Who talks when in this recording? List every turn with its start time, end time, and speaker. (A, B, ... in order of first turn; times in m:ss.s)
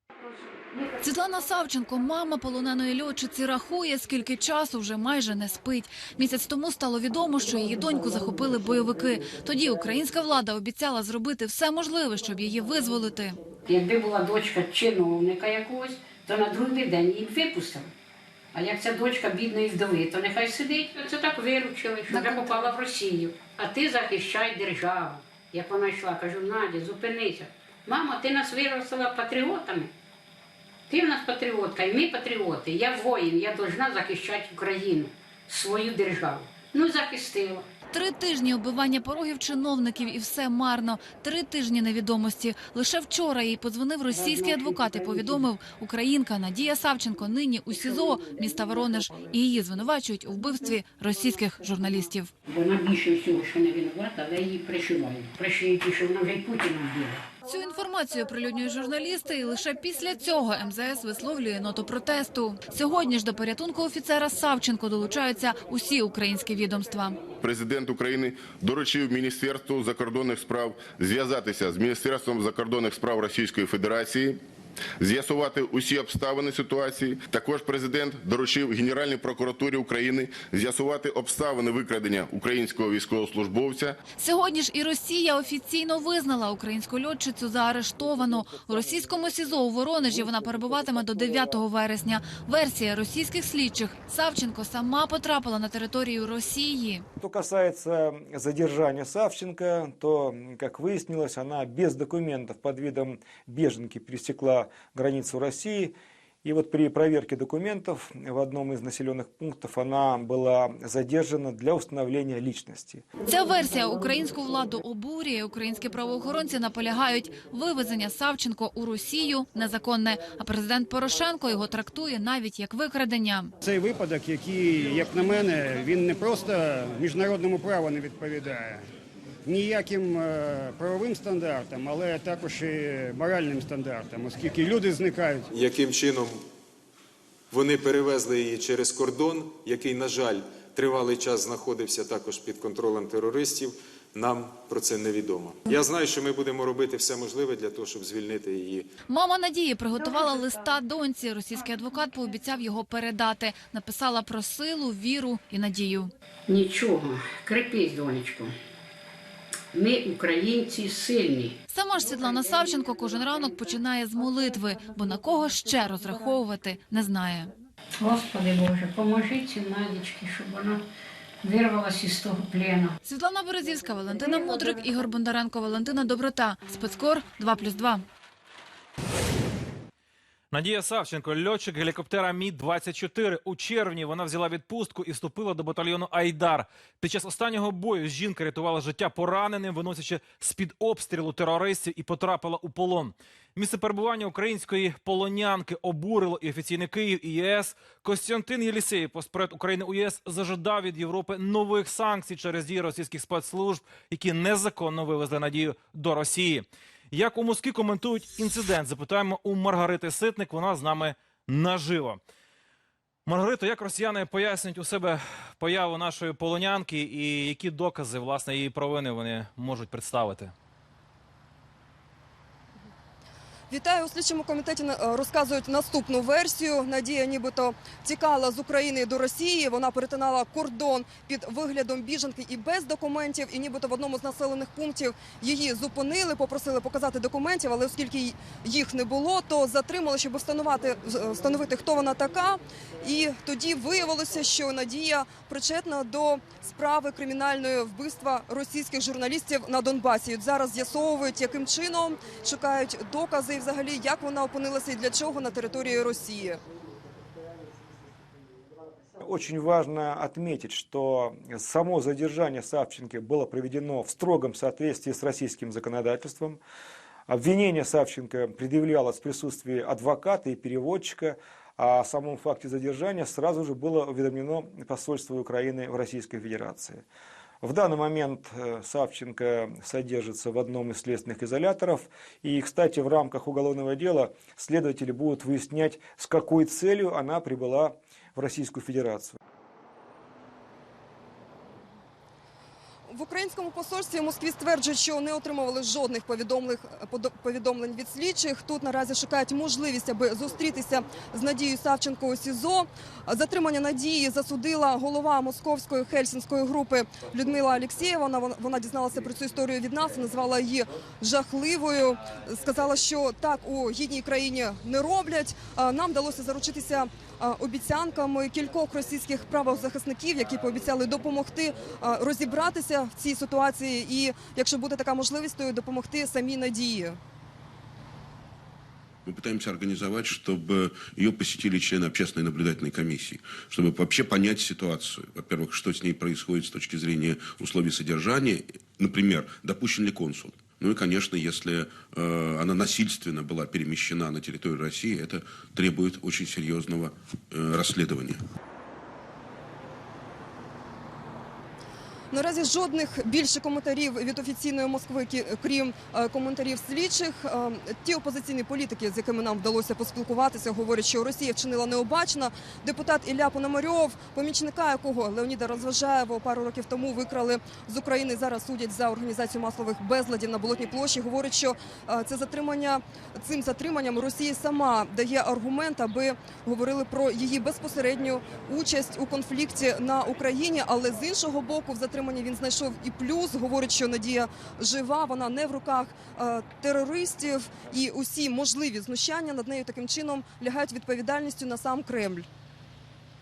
0:01.0-0:13.4 A
0:13.7-0:17.9 B
0:18.5-0:29.9 B
0:22.1-0:22.7 A
0:30.9-0:37.6 B
0:37.9-0:52.3 A
0:44.1-0:45.5 B
0:52.5-0:57.3 B
0:57.4-1:07.3 A
1:07.3-1:14.4 C
1:15.0-1:24.0 C
1:24.2-1:37.0 A
1:37.2-1:53.0 D
1:53.2-2:03.5 A
2:03.6-2:08.8 E
2:09.4-2:15.5 E
2:15.5-2:16.3 F
2:17.5-2:28.8 F
2:29.1-2:36.1 A
2:36.5-2:38.5 B
2:39.7-2:41.6 B
2:41.7-2:47.5 A
2:48.0-2:50.8 B
2:51.4-2:52.9 B
2:53.0-2:58.0 A
3:00.5-3:32.2 G
3:33.3-3:40.5 G
3:43.7-4:16.6 H
4:19.2-4:26.6 D
4:27.3-4:37.0 D
4:37.6-4:49.4 D
4:53.1-5:27.2 H
5:29.2-5:48.4 I
5:52.3-6:32.5 H